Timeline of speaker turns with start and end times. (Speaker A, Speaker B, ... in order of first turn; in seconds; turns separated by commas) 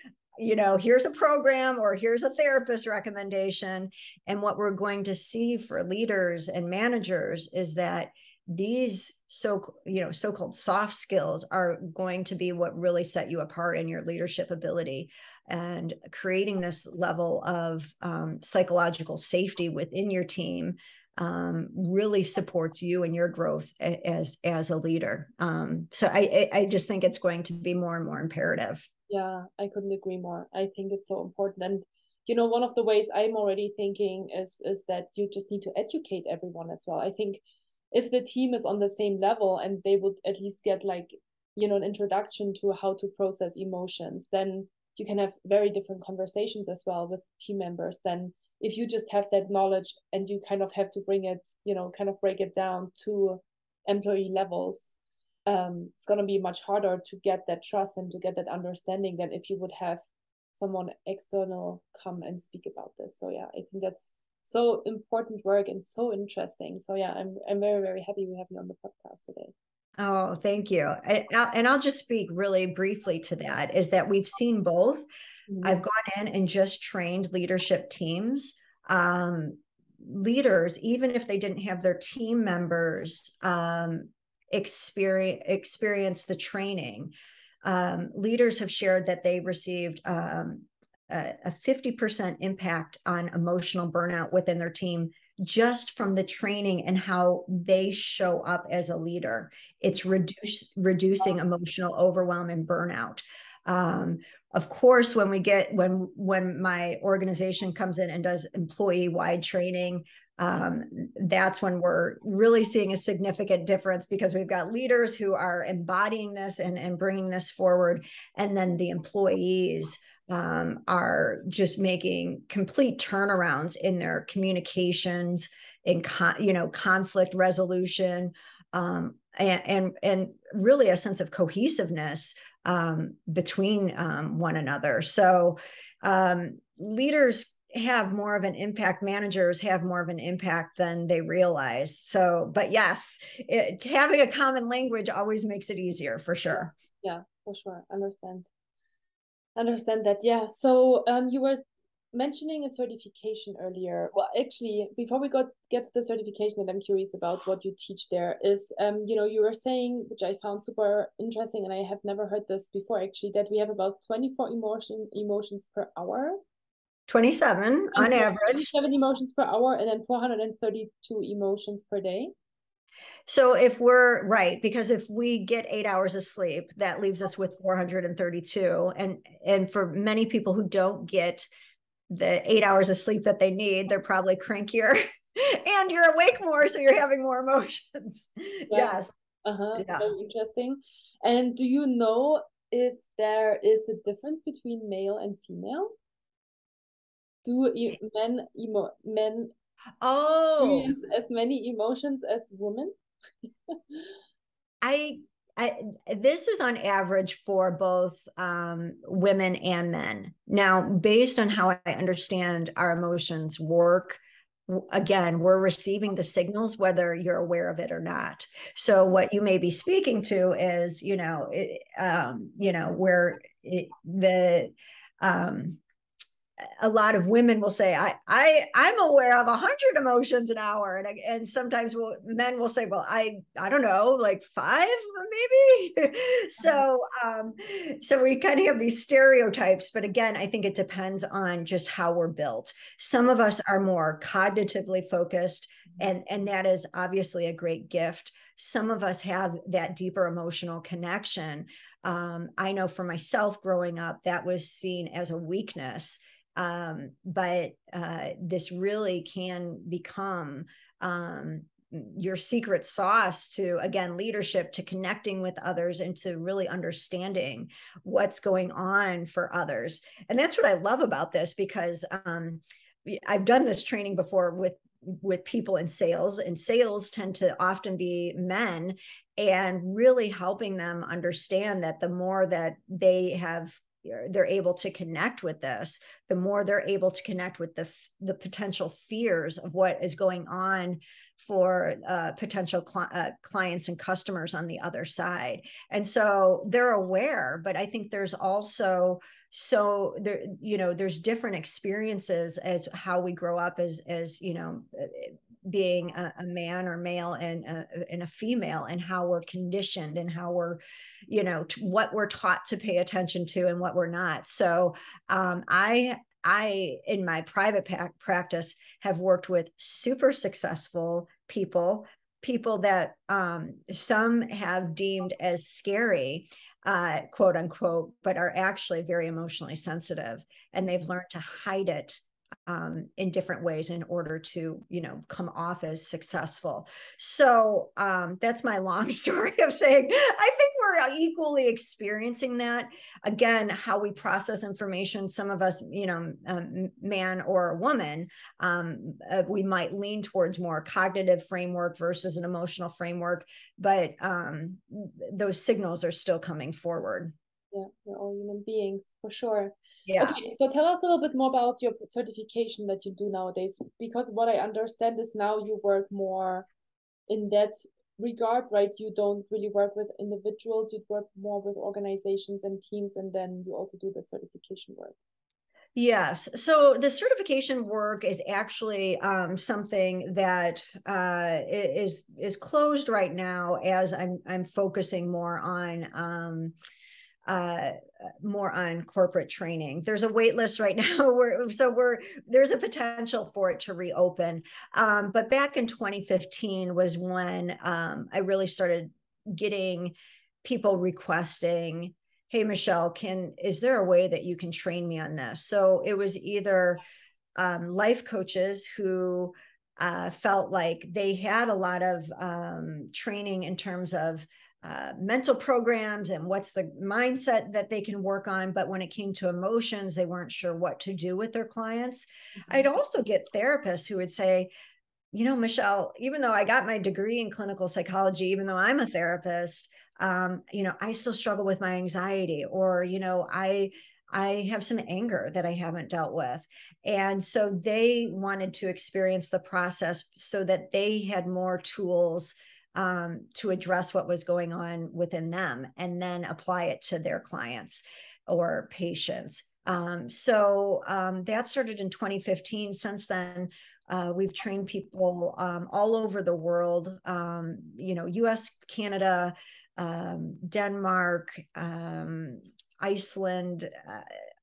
Speaker A: 0.4-28.9, Speaker B: 29.1-37.4, Speaker B: 37.9-55.0, Speaker B: 55.5-60.0, Speaker B: 60.5-69.5, Speaker A: 70.0-75.1, Speaker B: 75.5-75.8, Speaker A: 75.6-87.1, Speaker A: 87.6-146.7, Speaker B: 147.0-148.5, Speaker B: 149.6-151.6, Speaker B: 152.1-166.4, Speaker A: 167.1-168.7, Speaker B: 167.9-172.3, Speaker A: 173.3-181.5, Speaker A: 182.1-189.1, Speaker B: 188.7-195.9, Speaker A: 189.8-190.1, Speaker B: 197.4-199.5, Speaker A: 200.0-200.9, Speaker B: 200.6-202.9, Speaker B: 203.7-204.1, Speaker A: 204.8-225.8, Speaker A: 226.8-357.3, Speaker B: 357.7-366.7, Speaker A: 360.1-360.4, Speaker B: 367.3-375.1, Speaker A: 375.9-386.8, Speaker A: 387.4-407.0, Speaker A: 407.6-424.7, Speaker A: 425.3-464.3